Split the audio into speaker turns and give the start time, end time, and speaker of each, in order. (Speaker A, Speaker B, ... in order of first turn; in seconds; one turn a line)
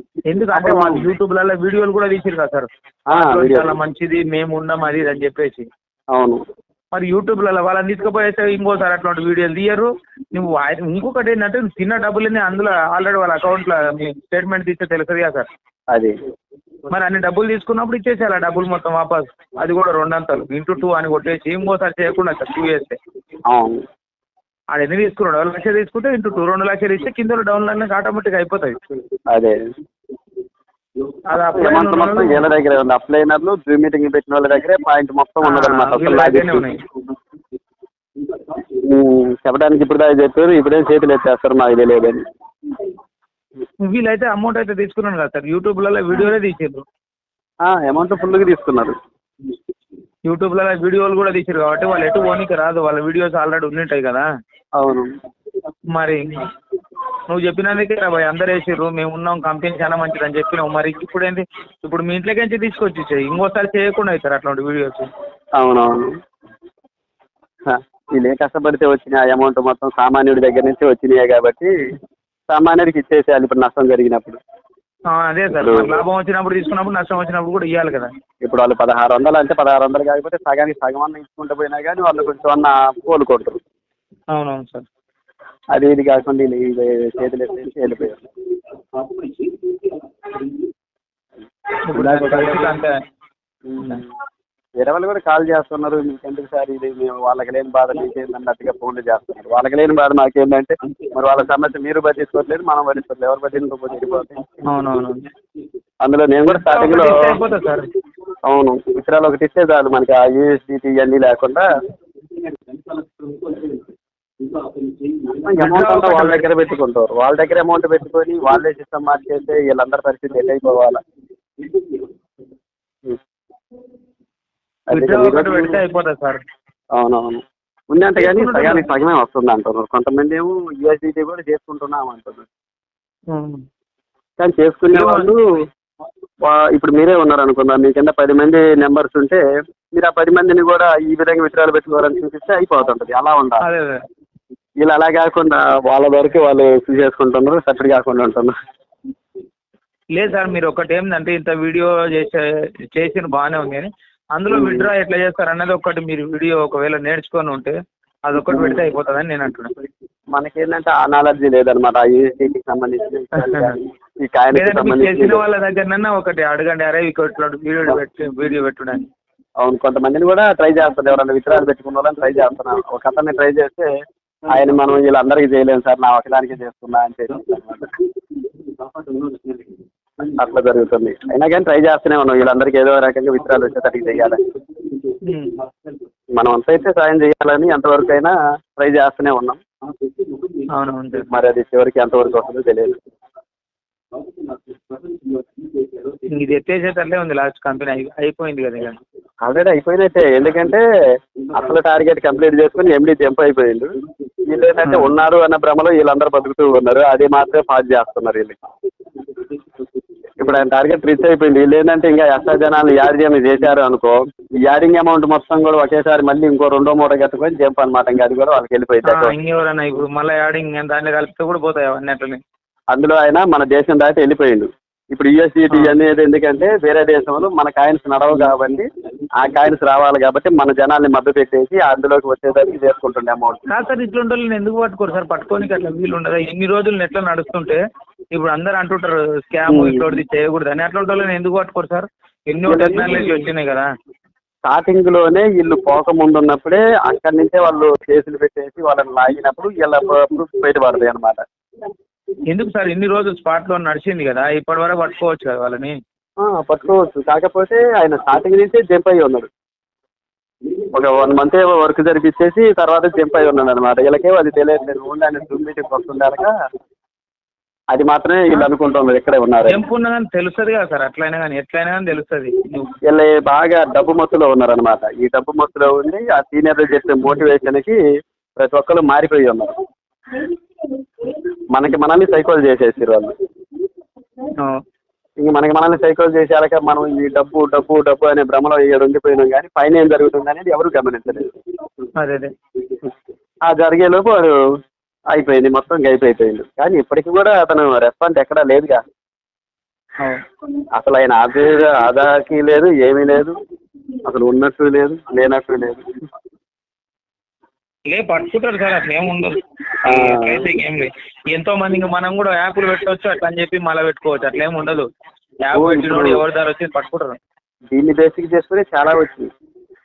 Speaker A: 0.3-5.7
Speaker B: 0.5-1.0
Speaker B: 3.1-3.7
Speaker B: 6.1-6.4
Speaker A: 6.9-15.5
Speaker A: 16.9-23.0
Speaker B: 23.4-23.8
Speaker A: 24.7-28.8
Speaker B: 29.3-29.6
Speaker A: 31.3-32.5
Speaker B: 31.5-36.7
Speaker A: 35.4-36.8
Speaker B: 38.8-42.2
Speaker A: 43.8-46.8
Speaker B: 47.6-49.0
Speaker A: 50.2-54.2
Speaker B: 54.8-55.1
Speaker A: 55.9-56.5
Speaker A: 57.3-65.1
Speaker B: 65.6-66.1
Speaker B: 67.7-71.7
Speaker B: 72.5-74.4
Speaker A: 75.1-78.1
Speaker B: 75.5-76.0
Speaker B: 78.4-83.6
Speaker A: 84.3-84.8
Speaker B: 85.7-88.2
Speaker A: 91.9-93.0
Speaker B: 91.9-92.7
Speaker B: 93.7-94.1
Speaker B: 94.8-104.5
Speaker A: 104.6-105.2
Speaker B: 106.0-107.1
Speaker A: 106.5-107.9
Speaker B: 108.5-111.7
Speaker B: 115.3-121.0
Speaker A: 115.6-116.5
Speaker B: 124.9-125.8
Speaker A: 124.9-126.4
Speaker B: 126.9-132.5
Speaker A: 128.2-128.8
Speaker A: 133.3-133.6
Speaker B: 134.4-135.4
Speaker A: 134.9-135.3
Speaker B: 136.4-139.4
Speaker B: 139.9-143.7
Speaker A: 143.6-144.0
Speaker B: 144.8-148.6
Speaker A: 150.1-159.7
Speaker B: 154.5-154.9
Speaker B: 158.5-158.8
Speaker B: 160.3-165.4
Speaker A: 163.3-163.8
Speaker A: 164.5-169.1
Speaker B: 169.6-173.9
Speaker B: 174.5-177.9
Speaker B: 180.2-184.4
Speaker A: 185.2-185.6
Speaker B: 186.3-189.6
Speaker A: 190.7-191.3
Speaker B: 191.3-193.0
Speaker A: 196.3-199.0
Speaker B: 199.4-200.8
Speaker B: 201.5-203.9
Speaker B: 204.5-208.6
Speaker A: 204.8-205.2
Speaker B: 210.4-219.3
Speaker A: 219.0-222.4
Speaker B: 222.9-228.9
Speaker A: 225.7-225.9
Speaker B: 229.4-233.6
Speaker A: 233.7-243.9
Speaker B: 239.7-240.0
Speaker B: 242.7-243.3
Speaker B: 244.7-251.4
Speaker A: 252.5-256.0
Speaker B: 256.4-259.5
Speaker B: 260.9-266.5
Speaker B: 267.9-269.8
Speaker A: 269.7-272.9
Speaker B: 273.1-278.0
Speaker B: 278.6-279.7
Speaker B: 281.7-283.3
Speaker A: 284.6-284.8
Speaker B: 285.4-291.5
Speaker A: 292.2-292.5
Speaker B: 293.7-294.6
Speaker B: 295.3-299.0
Speaker B: 301.0-303.6
Speaker B: 304.2-306.1
Speaker A: 308.1-315.1
Speaker B: 310.1-310.6
Speaker A: 315.6-317.4
Speaker B: 315.7-316.4
Speaker B: 317.9-319.5